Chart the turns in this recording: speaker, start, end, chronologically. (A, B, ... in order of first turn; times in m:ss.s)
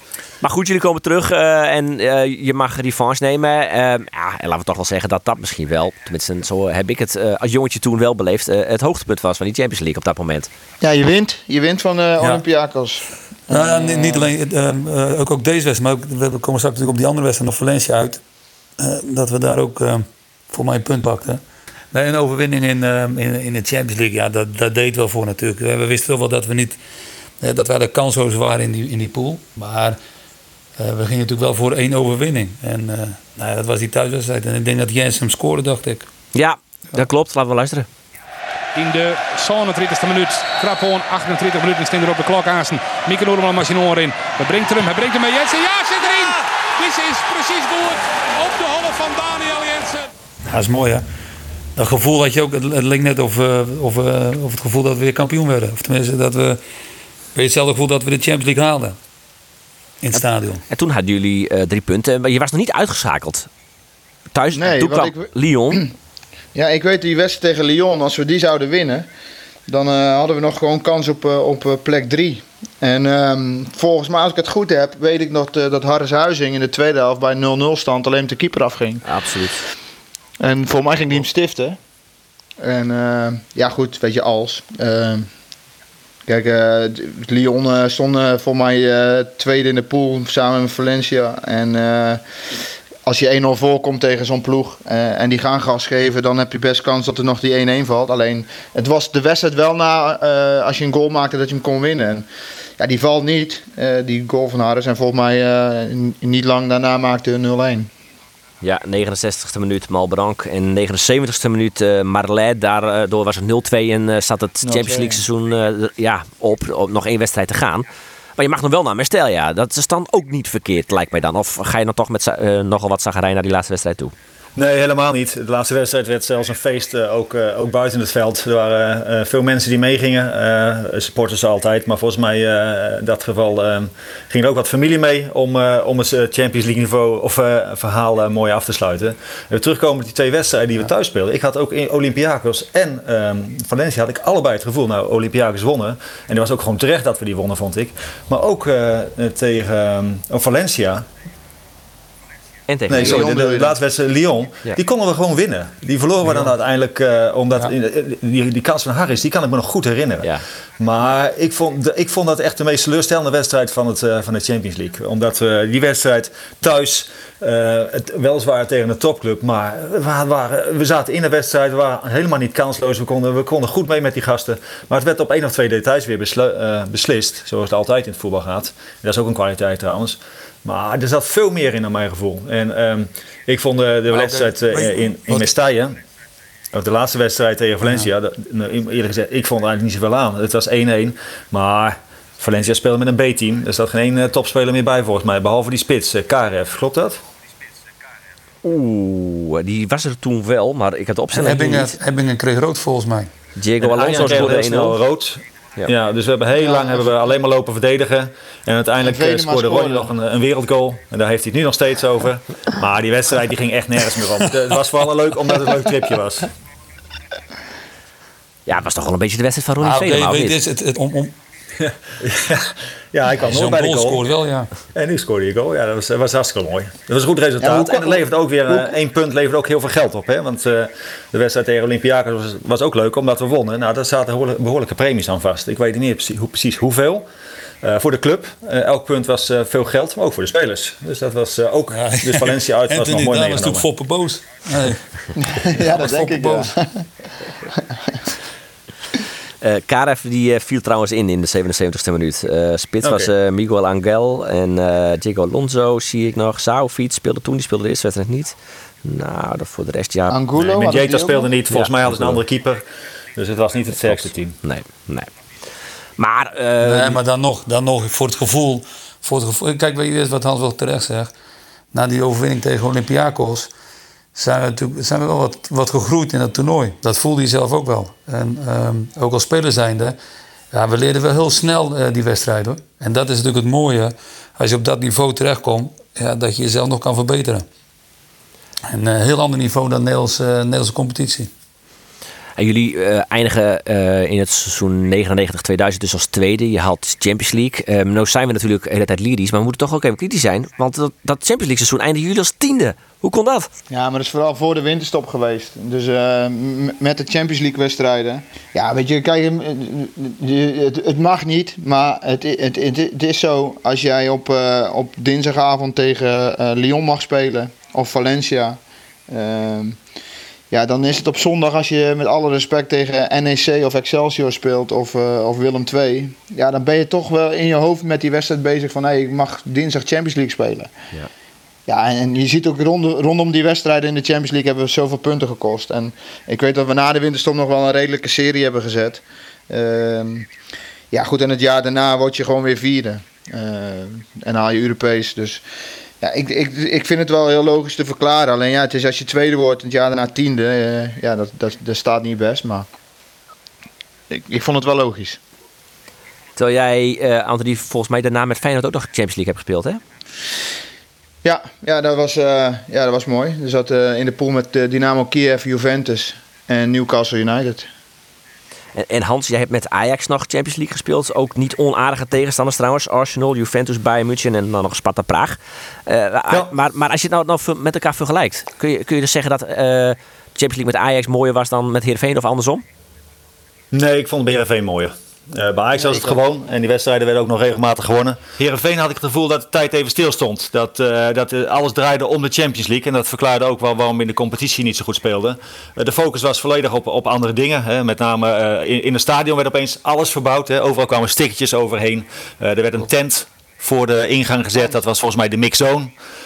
0:00.4-0:10.5 A
0:10.8-0:14.3 B
0:13.5-0:18.2 C
0:18.8-0:26.8 C
0:27.4-0:30.0 C
0:30.8-0:36.1 C
0:36.3-0:37.9 A
0:38.7-0:50.1 D
0:50.5-0:51.0 C
0:51.8-0:56.6 C
0:57.3-0:59.0 C
1:00.0-1:00.6 C
1:00.1-1:03.5 A
1:04.3-1:05.8 A
1:04.5-1:05.9 B
1:06.5-1:09.1 B
1:09.7-1:19.0 B
1:19.0-1:19.6 A
1:20.4-1:21.8 B
1:22.6-1:25.3 B
1:26.3-1:32.2 B
1:33.0-1:42.2 B
1:42.8-1:47.9 B
1:48.6-1:57.8 A
1:54.6-1:55.2 B
1:58.4-2:04.1 A
2:04.6-2:31.0 E
2:32.7-2:33.3 A
2:32.9-3:06.0 E
2:32.9-2:33.7 B
2:36.2-2:36.5 C
3:04.1-3:05.5 C
3:06.7-3:17.2 E
3:18.6-3:21.9 A
3:21.3-3:23.3 C
3:23.6-3:25.0 A
3:23.8-3:36.5 E
3:26.6-3:27.0 B
3:29.0-3:30.1 B
3:38.7-3:40.6 A
3:39.8-3:41.3 C
3:41.8-3:44.2 E
3:43.4-3:44.7 C
3:44.9-3:57.2 E
3:47.6-3:48.9 B
3:57.8-4:03.9 E
4:01.9-4:05.0 C
4:05.4-4:07.1 B
4:05.8-4:06.7 C
4:07.9-4:08.2 B
4:09.6-4:20.4 A
4:13.0-4:13.3 E
4:20.3-4:21.5 B
4:20.6-4:22.8 E
4:21.7-4:22.4 A
4:23.4-4:24.6 E
4:24.0-4:25.3 A
4:26.2-4:27.2 A
4:26.8-4:31.3 C
4:31.9-4:33.7 C
4:34.3-4:40.2 C
4:40.7-4:47.6 C
4:48.9-4:51.5 C
4:52.6-5:03.7 A
5:03.9-5:20.0 B
5:20.7-5:30.9 B
5:31.9-5:40.5 B
5:41.1-5:45.6 B
5:46.2-5:52.9 B
5:54.3-5:55.4 B
5:56.6-6:00.0 A
6:01.4-6:07.9 B
6:08.9-6:22.8 A
6:23.9-6:46.1 E
6:26.0-6:26.3 B